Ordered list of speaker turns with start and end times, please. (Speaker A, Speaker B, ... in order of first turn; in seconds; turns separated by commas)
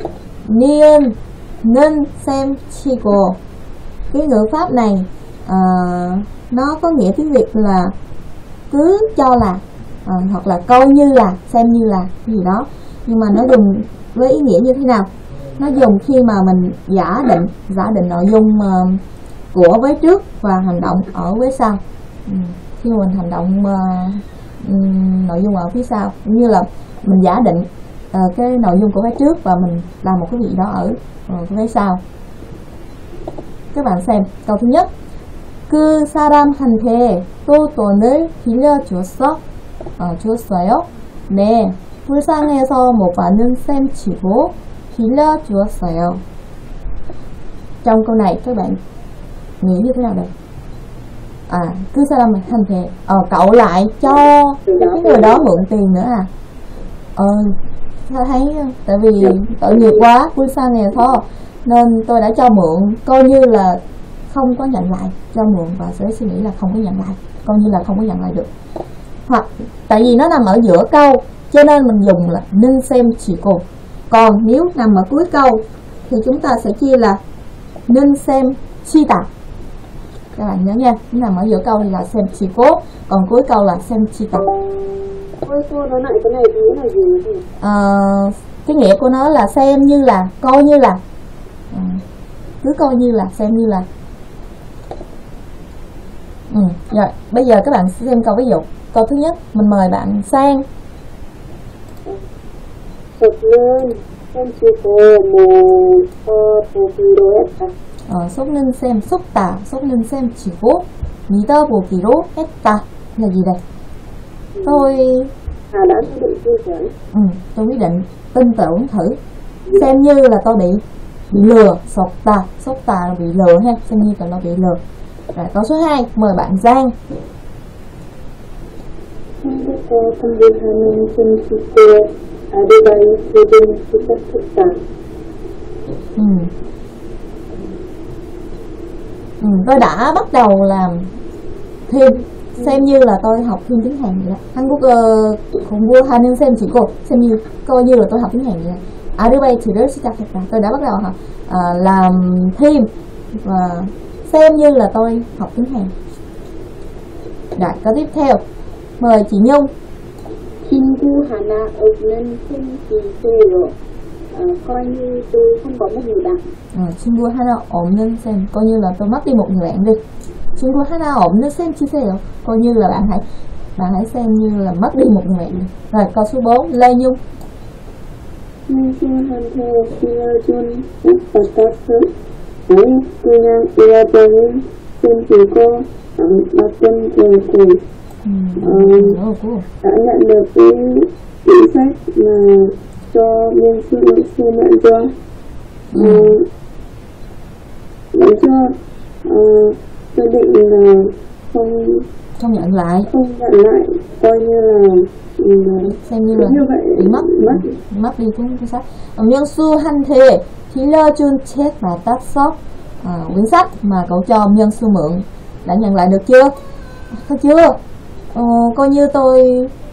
Speaker A: 0.5-3.4, Speaker A: 4.1-7.9, Speaker A: 8.7-19.0, Speaker A: 19.5-32.0, Speaker A: 33.7-34.9, Speaker A: 35.7-39.4, Speaker A: 40.0-46.2, Speaker A: 47.8-48.8, Speaker A: 49.6-50.3, Speaker A: 51.5-56.3, Speaker B: 54.7-55.5, Speaker A: 57.2-57.5, Speaker A: 58.1-68.5, Speaker A: 69.3-77.2, Speaker A: 77.9-79.3, Speaker A: 80.3-84.5, Speaker B: 85.4-87.4, Speaker A: 87.6-91.0, Speaker A: 91.7-92.0, Speaker A: 92.6-93.8, Speaker A: 96.5-100.6, Speaker B: 103.2-107.7, Speaker A: 108.1-113.6, Speaker B: 114.5-114.9, Speaker A: 114.6-115.3, Speaker B: 115.7-116.9, Speaker A: 117.1-119.2, Speaker A: 119.7-124.8, Speaker A: 125.3-127.0, Speaker B: 129.4-134.8, Speaker A: 136.2-136.5, Speaker A: 139.4-141.1, Speaker A: 141.9-152.9, Speaker A: 153.4-155.9, Speaker A: 157.6-158.4, Speaker A: 159.0-159.7, Speaker B: 160.7-163.8, Speaker B: 164.3-166.4, Speaker A: 166.8-170.0, Speaker A: 170.6-173.2, Speaker A: 173.8-177.2, Speaker B: 178.7-182.1, Speaker B: 182.7-187.8, Speaker A: 188.2-189.7, Speaker B: 188.6-189.2, Speaker B: 189.8-195.1, Speaker A: 195.9-196.4, Speaker B: 195.9-196.5, Speaker B: 198.1-202.1, Speaker A: 202.4-203.1, Speaker B: 203.1-207.7, Speaker A: 206.1-216.6, Speaker A: 217.2-217.8, Speaker A: 218.3-219.7